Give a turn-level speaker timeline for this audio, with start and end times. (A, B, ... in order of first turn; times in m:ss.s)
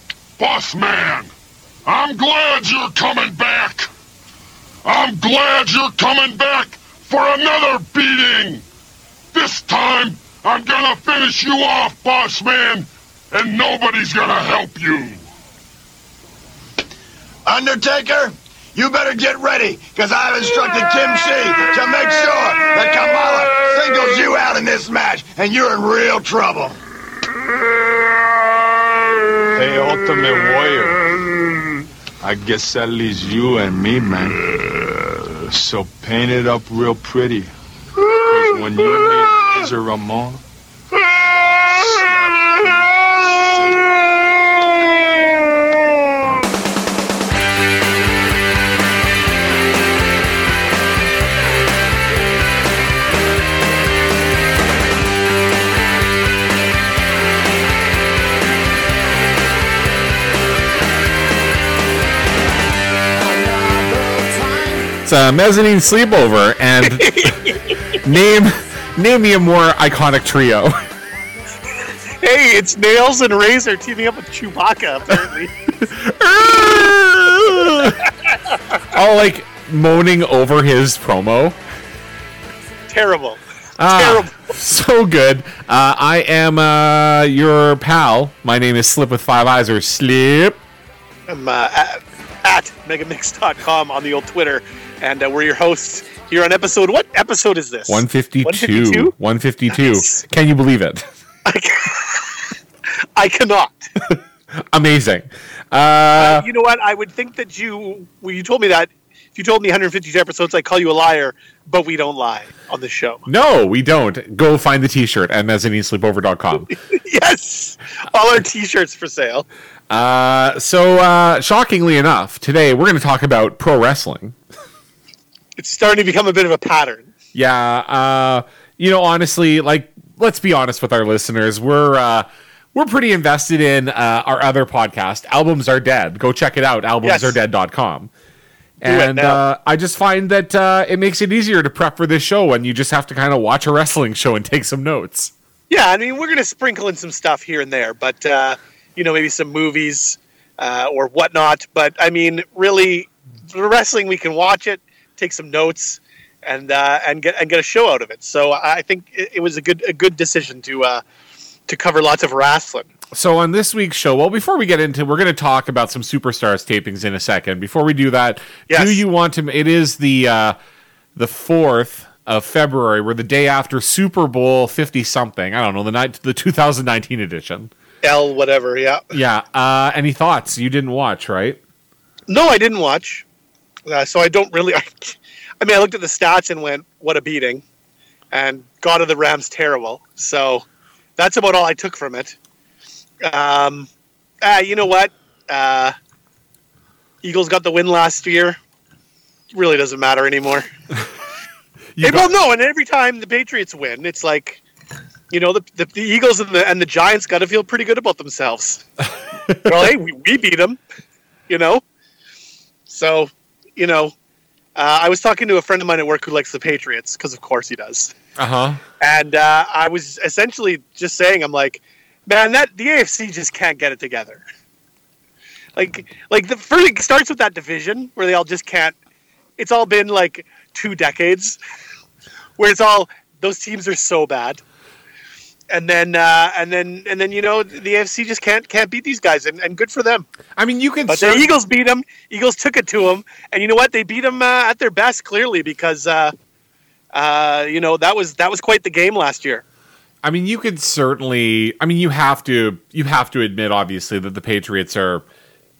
0:00.4-0:01.3 A
0:01.8-0:03.9 A
0:04.8-0:08.6 A
0:09.3-0:15.2 A
0:17.4-0:26.8 B
0:29.5-0:31.0 C
0:32.2-0:37.5 C
0:38.1-0:40.4 C
0:41.4-0:44.0 C
1:03.8-1:04.2 C
1:04.8-1:10.7 D
1:07.0-1:07.7 E
1:12.2-1:15.5 E
1:15.9-1:18.0 D
1:18.9-1:21.6 D
1:22.9-1:24.3 E
1:23.8-1:30.6 D
1:31.3-1:39.1 E
1:37.9-1:41.0 D
1:39.8-1:40.2 E
1:41.4-1:42.5 E
1:43.2-1:43.9 E
1:44.1-1:46.5 D
1:46.1-1:53.2 E
1:53.3-1:56.7 D
1:56.7-1:59.5 E
1:59.9-2:04.4 D
2:05.6-2:07.1 E
2:07.3-2:18.1 D
2:17.0-2:17.4 E
2:18.8-2:25.3 D
2:18.8-2:19.4 E
2:25.7-2:41.0 E
2:41.7-2:42.9 E
2:43.1-2:50.6 D
2:48.7-2:49.0 E
2:51.2-2:57.7 D
2:58.0-2:59.0 E
2:59.1-3:01.6 D
3:02.3-3:03.2 E
3:03.9-3:07.6 E
3:08.3-3:10.6 E
3:11.2-3:12.4 E
3:13.2-3:13.9 E
3:14.4-3:15.9 E
3:17.2-3:18.6 E
3:19.5-3:20.6 E
3:22.0-3:22.3 D
3:22.0-3:24.6 E
3:25.3-3:28.8 E
3:29.5-3:29.9 D
3:29.6-3:30.8 E
3:31.5-3:31.8 E
3:32.9-3:34.1 E
3:34.8-3:38.1 E
3:38.4-3:38.8 D
3:39.0-3:44.4 E
3:45.8-3:48.9 E
3:49.6-3:51.6 E
3:52.6-3:54.6 E
3:55.7-4:00.3 E
4:00.6-4:01.5 D
4:01.1-4:06.3 E
4:07.1-4:09.6 E
4:10.2-4:15.2 D